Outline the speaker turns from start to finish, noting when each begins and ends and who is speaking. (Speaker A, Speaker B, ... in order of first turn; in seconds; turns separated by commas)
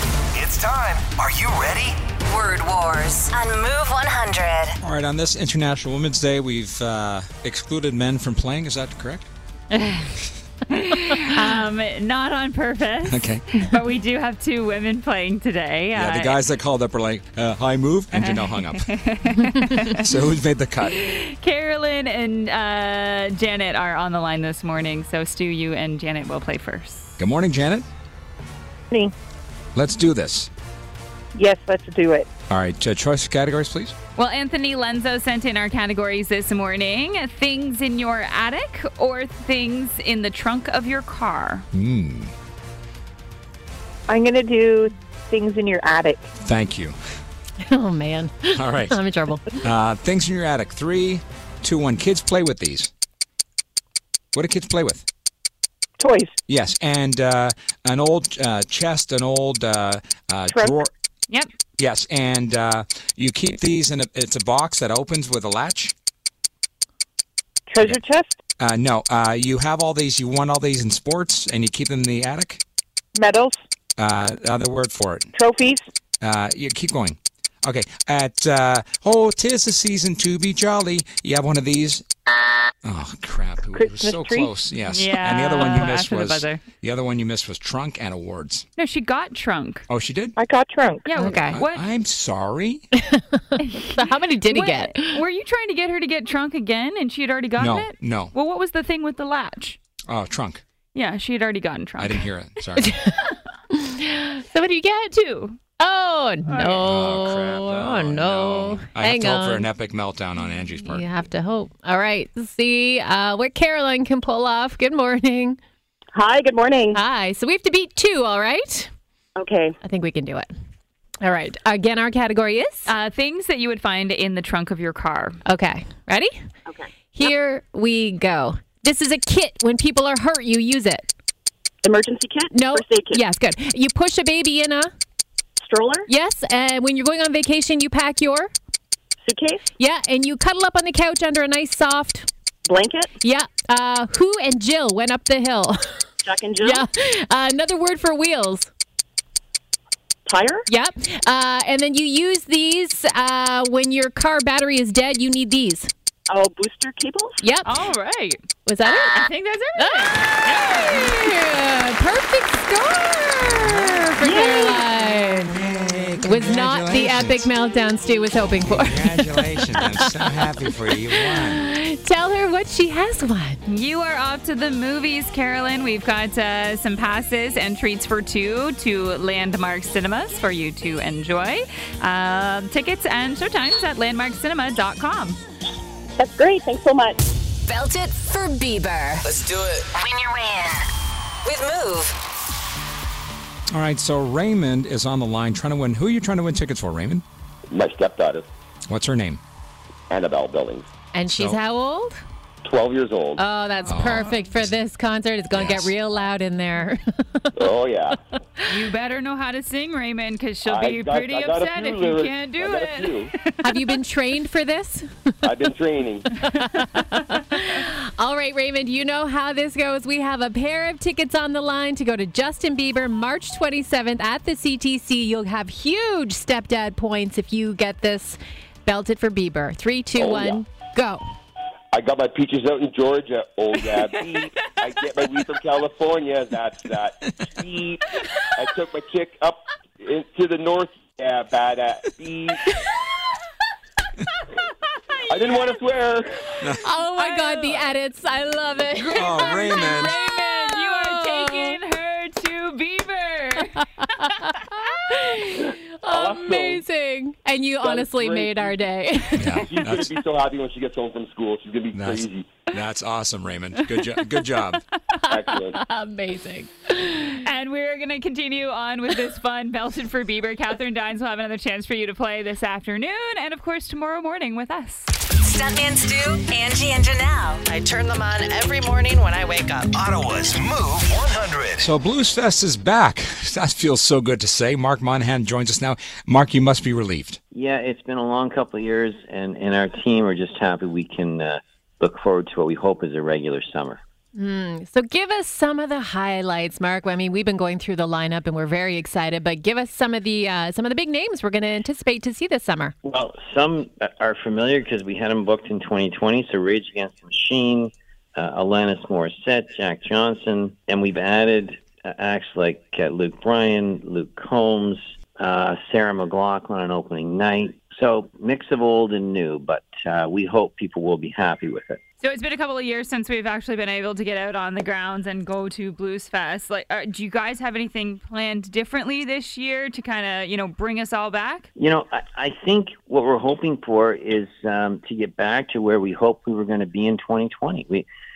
Speaker A: 0.3-2.0, Speaker B: 2.3-4.8, Speaker C: 4.8-9.3, Speaker D: 9.7-10.2, Speaker D: 10.7-16.4, Speaker C: 13.1-13.4, Speaker C: 15.9-18.9, Speaker D: 18.1-20.1, Speaker C: 19.9-21.0, Speaker D: 20.8-27.2, Speaker C: 27.2-27.9, Speaker C: 29.7-30.5, Speaker E: 31.3-32.3, Speaker C: 32.5-33.9, Speaker D: 34.1-41.6, Speaker C: 41.7-42.3, Speaker E: 44.1-46.2, Speaker C: 46.4-47.0, Speaker F: 47.6-49.6, Speaker C: 48.5-49.0, Speaker C: 49.6-52.9, Speaker C: 54.3-55.1, Speaker E: 56.0-56.4, Speaker C: 56.5-60.9, Speaker E: 60.5-60.8, Speaker C: 61.8-65.9, Speaker E: 67.7-68.4, Speaker C: 68.6-72.6, Speaker E: 73.2-73.5, Speaker C: 74.0-75.3, Speaker E: 75.3-75.8, Speaker C: 76.2-82.0, Speaker C: 82.8-88.7, Speaker E: 83.7-84.5, Speaker D: 84.9-86.6, Speaker D: 88.8-89.8, Speaker C: 89.9-90.3, Speaker E: 90.3-91.1, Speaker D: 91.0-91.8, Speaker F: 91.1-91.6, Speaker C: 91.5-92.8, Speaker F: 93.0-95.2, Speaker D: 93.6-99.8, Speaker C: 97.6-98.3, Speaker C: 100.1-100.6, Speaker D: 100.9-102.2, Speaker C: 102.0-102.9, Speaker F: 102.8-109.7, Speaker D: 106.5-106.8, Speaker C: 106.6-111.1, Speaker F: 110.9-115.6, Speaker E: 116.1-117.0, Speaker F: 116.9-118.9, Speaker E: 119.3-119.8, Speaker F: 119.8-120.5, Speaker F: 121.2-122.9, Speaker D: 122.8-125.4, Speaker F: 125.5-126.3, Speaker F: 127.1-131.1, Speaker E: 131.8-133.2, Speaker F: 132.5-134.9, Speaker E: 135.6-136.1, Speaker F: 136.1-138.5, Speaker E: 139.2-139.6, Speaker F: 139.8-142.3, Speaker E: 142.7-143.1, Speaker F: 143.2-146.0, Speaker E: 146.2-146.8, Speaker F: 146.6-148.7, Speaker E: 150.2-150.7, Speaker F: 150.7-155.9, Speaker E: 156.3-157.4, Speaker F: 157.4-157.7, Speaker D: 157.6-158.4, Speaker F: 158.7-159.2, Speaker D: 159.1-161.3, Speaker F: 159.8-165.6, Speaker C: 163.6-164.1, Speaker E: 164.2-164.9, Speaker C: 165.0-167.5, Speaker F: 166.2-170.3, Speaker C: 168.6-171.7, Speaker F: 170.9-173.6, Speaker D: 173.7-185.4, Speaker E: 186.2-187.2, Speaker B: 187.7-190.8, Speaker B: 191.4-192.2, Speaker C: 193.7-197.2, Speaker G: 197.7-198.4, Speaker C: 198.9-199.4, Speaker G: 200.1-200.9, Speaker F: 201.1-202.2, Speaker C: 201.3-201.6, Speaker G: 202.6-203.4, Speaker F: 203.4-207.5, Speaker D: 203.8-204.3, Speaker C: 203.9-204.3, Speaker C: 205.5-205.9, Speaker G: 207.6-208.2, Speaker D: 208.7-213.9, Speaker G: 210.6-213.3, Speaker F: 213.6-215.1, Speaker G: 215.4-216.3, Speaker F: 216.5-231.2, Speaker D: 216.7-217.0, Speaker G: 230.2-230.6, Speaker G: 231.9-242.6, Speaker G: 245.3-246.5, Speaker F: 246.8-251.8, Speaker D: 247.2-247.8, Speaker C: 249.0-250.1, Speaker D: 249.0-253.8, Speaker F: 254.0-259.6, Speaker G: 256.1-256.8, Speaker G: 257.8-258.8, Speaker C: 259.4-260.1, Speaker G: 259.5-262.6, Speaker C: 261.9-264.8, Speaker F: 265.2-267.4, Speaker G: 265.3-265.8, Speaker D: 267.4-275.1, Speaker B: 275.4-277.6, Speaker H: 277.7-279.9, Speaker A: 279.9-281.9, Speaker C: 281.8-287.4, Speaker I: 287.5-294.0, Speaker F: 294.3-302.9, Speaker I: 303.0-322.0, Speaker D: 322.2-331.7, Speaker I: 331.8-338.1